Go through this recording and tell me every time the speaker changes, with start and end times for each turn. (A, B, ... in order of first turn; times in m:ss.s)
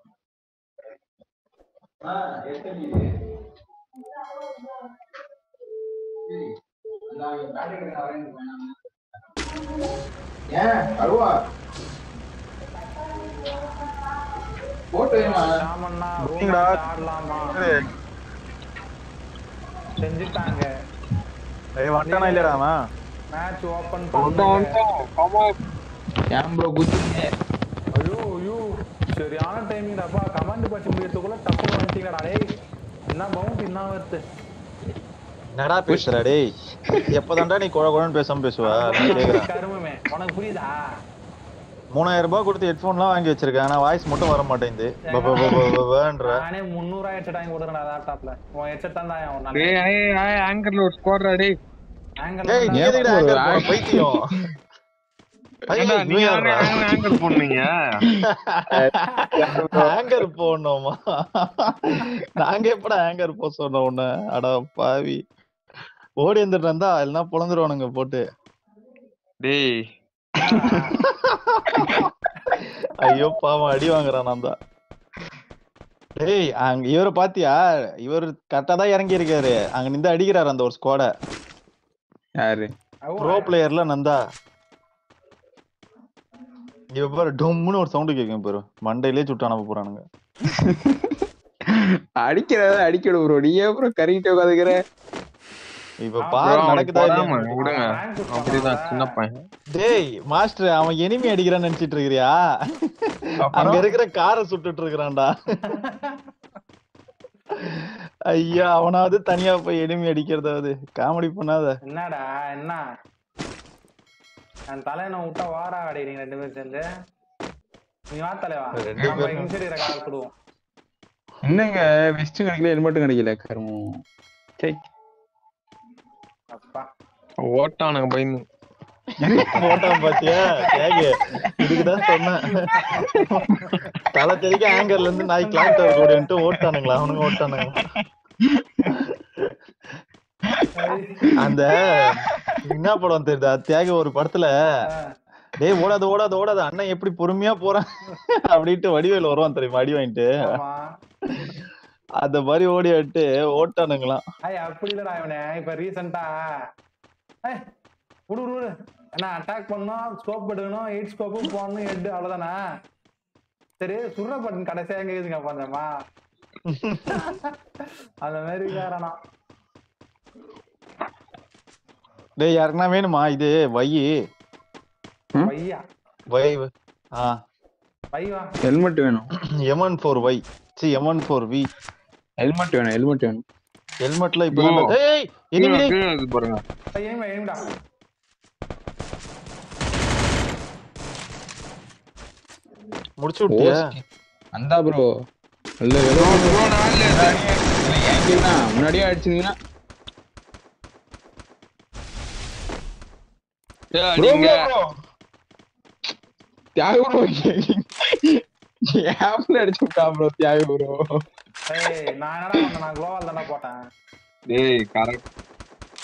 0:02.0-0:03.1 A
0:07.1-0:08.7 A
0:10.5-0:11.3 A
0:14.9-0:15.5 A
0:15.1-0:17.6 B
0:16.2-0:16.8 C
0:17.3-0:17.9 C
0:20.0-0:20.7 B
0:21.8-0:22.8 C
0:22.0-0:22.6 B
0:23.3-0:24.7 B
0:24.2-0:25.6 D
0:26.3-0:27.3 A
0:28.0-0:32.4 B
0:33.1-0:34.2 B
0:35.6-0:36.4 C
0:37.1-0:39.4 C
0:38.7-0:40.7 B
0:42.0-0:46.4 C
0:45.1-0:45.6 B
0:46.3-0:49.8 B
0:49.6-0:51.5 D
0:52.2-0:53.4 B
0:52.5-0:54.3 C
0:52.7-0:54.2 A
0:55.7-0:56.9 C
0:55.7-0:58.0 D
0:58.1-1:00.0 A
0:58.2-1:05.2 C
1:06.2-1:08.2 C
1:09.4-1:09.8 D
1:10.4-1:11.0 B
1:11.0-1:12.1 C
1:13.0-1:14.6 C
1:16.2-1:21.1 C
1:22.4-1:22.7 A
1:23.1-1:23.5 B
1:23.2-1:24.2 C
1:27.0-1:30.0 C
1:30.5-1:34.8 A
1:36.0-1:37.6 C
1:36.2-1:36.5 B
1:36.4-1:39.4 D
1:37.6-1:39.1 B
1:39.8-1:45.3 C
1:43.4-1:43.8 A
1:45.7-1:46.0 B
1:47.6-1:51.8 C
1:51.9-1:52.8 B
1:54.7-1:56.8 B
1:58.1-2:00.3 B
1:58.8-1:59.5 C
2:01.4-2:04.0 A
2:06.5-2:06.9 B
2:07.4-2:08.4 D
2:09.2-2:10.1 A
2:09.3-2:13.4 C
2:12.7-2:13.9 B
2:14.1-2:17.9 C
2:15.4-2:16.3 B
2:18.5-2:18.9 A
2:18.9-2:19.5 C
2:20.7-2:21.4 B
2:21.4-2:24.5 C
2:21.5-2:22.0 A
2:25.6-2:27.9 C
2:28.5-2:30.6 C
2:30.4-2:30.8 B
2:32.2-2:34.2 C
2:34.5-2:36.3 B
2:38.3-2:42.6 B
2:43.8-2:45.9 B
2:46.7-2:47.2 C
2:47.1-2:47.5 B
2:48.2-2:49.1 B
2:52.4-2:54.1 C
2:55.4-2:55.8 B
2:56.3-2:57.4 C
2:58.1-2:58.5 B
2:58.6-2:59.3 A
2:59.7-3:01.7 C
3:02.4-3:03.4 A
3:04.0-3:05.9 C
3:04.5-3:04.9 D
3:05.6-3:06.6 D
3:06.9-3:07.7 B
3:13.2-3:13.9 C
3:13.5-3:15.1 A
3:15.8-3:19.6 A
3:16.1-3:17.5 D
3:23.9-3:24.7 D
3:24.2-3:24.9 A
3:26.8-3:31.2 A
3:31.7-3:33.8 B
3:34.5-3:35.2 D